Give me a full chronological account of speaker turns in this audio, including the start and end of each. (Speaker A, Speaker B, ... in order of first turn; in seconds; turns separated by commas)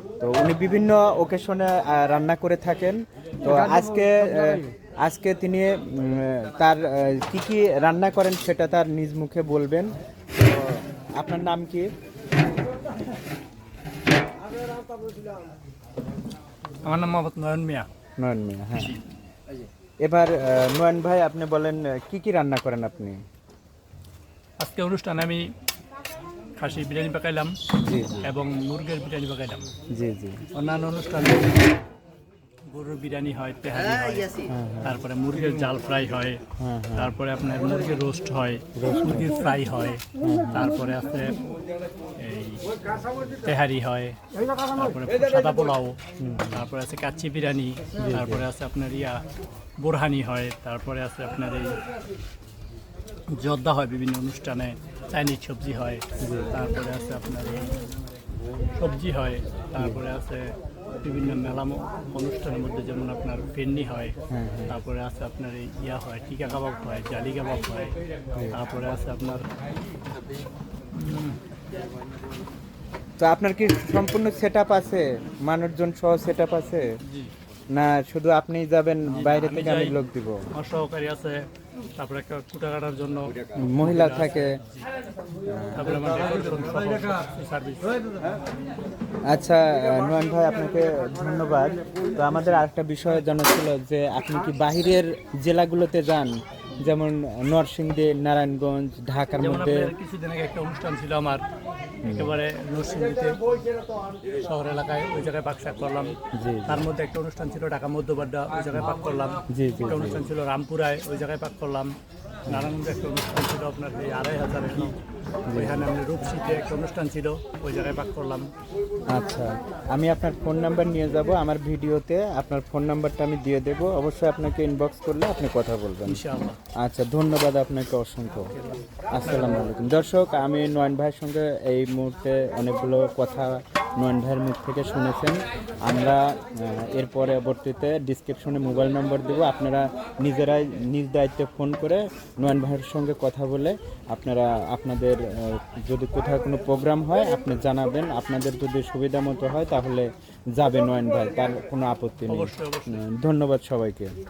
Speaker A: 0.2-11.9, Speaker B: 16.8-17.9, Speaker A: 18.2-19.0, Speaker B: 18.7-19.0, Speaker A: 20.0-23.2, Speaker B: 24.6-25.5, Speaker B: 26.5-27.7, Speaker A: 27.8-28.3, Speaker B: 28.2-29.7, Speaker A: 29.9-30.4, Speaker B: 30.5-31.8, Speaker B: 32.7-36.4, Speaker A: 34.5-34.9, Speaker A: 36.6-37.1, Speaker B: 37.0-41.4, Speaker A: 38.7-39.3, Speaker A: 40.2-40.7, Speaker B: 42.2-42.6, Speaker B: 43.4-46.0, Speaker A: 46.2-46.6, Speaker B: 46.5-49.2, Speaker A: 48.0-48.4, Speaker B: 49.8-51.8, Speaker B: 53.3-57.8, Speaker A: 56.2-56.5, Speaker B: 58.7-64.2, Speaker A: 64.3-64.7, Speaker B: 64.7-68.0, Speaker B: 68.5-69.5, Speaker B: 70.9-71.4, Speaker A: 73.2-76.9, Speaker B: 77.0-77.3, Speaker A: 77.7-80.5, Speaker B: 79.0-80.0, Speaker B: 80.5-84.8, Speaker A: 83.5-84.6, Speaker A: 85.5-86.0, Speaker B: 85.7-87.9, Speaker A: 89.3-99.9, Speaker B: 99.4-101.4, Speaker A: 102.0-102.3, Speaker B: 102.0-103.4, Speaker B: 104.3-111.9, Speaker A: 106.3-106.8, Speaker A: 109.5-110.2, Speaker B: 112.5-115.0, Speaker A: 115.5-115.9, Speaker B: 115.5-118.5, Speaker A: 119.1-126.2, Speaker B: 126.1-126.6, Speaker A: 126.7-128.5, Speaker B: 128.6-129.7, Speaker A: 129.1-154.1, Speaker B: 152.3-153.0